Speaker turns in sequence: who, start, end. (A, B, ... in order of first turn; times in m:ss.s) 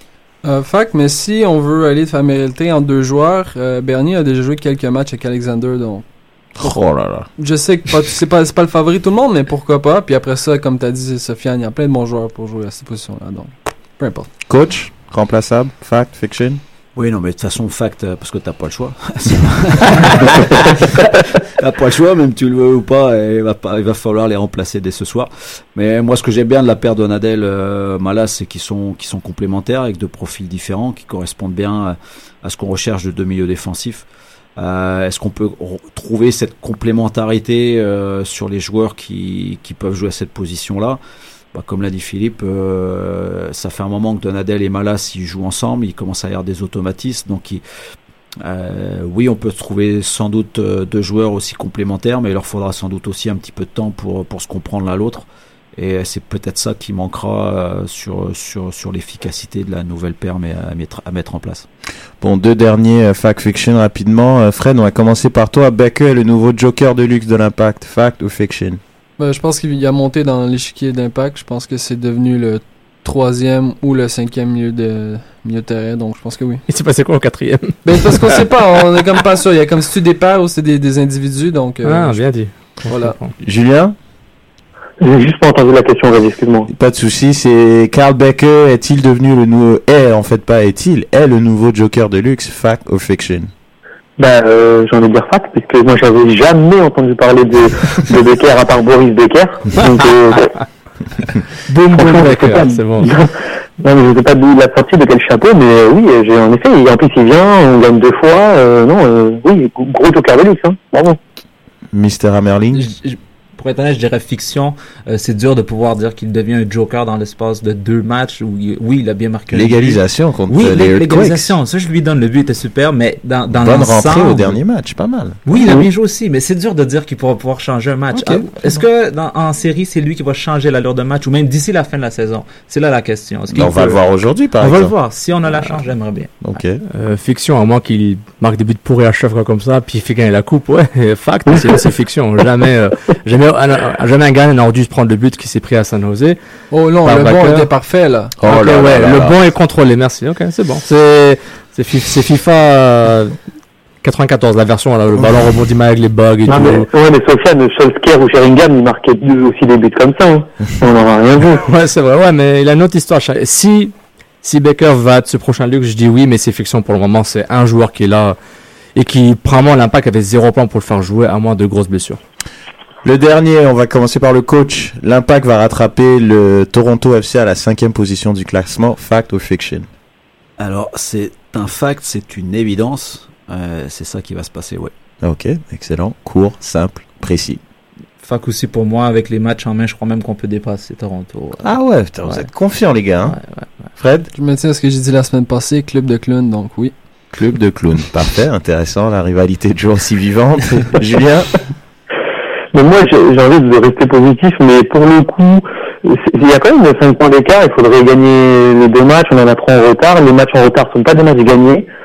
0:00.4-0:06.0 A
0:06.6-0:07.3 B
0:07.4-0:14.3 A
0:14.5-0:16.6 B
0:17.0-0:34.0 C
0:34.6-0:41.0 C
0:41.5-0:47.6 C
0:48.4-1:01.6 C
1:02.2-1:08.8 B
1:09.2-1:16.6 A
1:16.7-1:18.4 D
1:17.8-1:23.2 A
1:21.8-1:23.3 D
1:23.4-1:23.9 B
1:25.0-1:26.7 E
1:26.7-1:33.5 B
1:34.2-1:40.5 E
1:41.7-1:43.1 D
1:41.9-1:51.2 E
1:51.9-1:52.9 B
1:52.7-2:04.6 F
1:59.5-2:01.5 B
2:03.5-2:05.4 B
2:05.4-2:14.0 F
2:05.5-2:05.9 E
2:08.1-2:08.5 D
2:13.5-2:14.9 B
2:14.6-2:16.6 F
2:16.4-2:16.8 B
2:16.9-2:26.4 D
2:26.7-2:28.3 A
2:27.0-2:27.7 D
2:28.4-2:29.4 B
2:28.4-2:33.4 D
2:34.0-2:36.9 D
2:36.5-2:41.6 E
2:41.6-2:48.4 D
2:48.9-2:52.2 D
2:53.0-2:59.9 B
3:00.6-3:04.9 C
3:05.2-3:07.6 B
3:08.2-3:12.5 F
3:11.6-3:13.4 B
3:13.2-3:13.9 F
3:14.0-3:14.3 B
3:14.3-3:16.9 A
3:17.3-3:21.6 B
3:22.7-3:31.8 E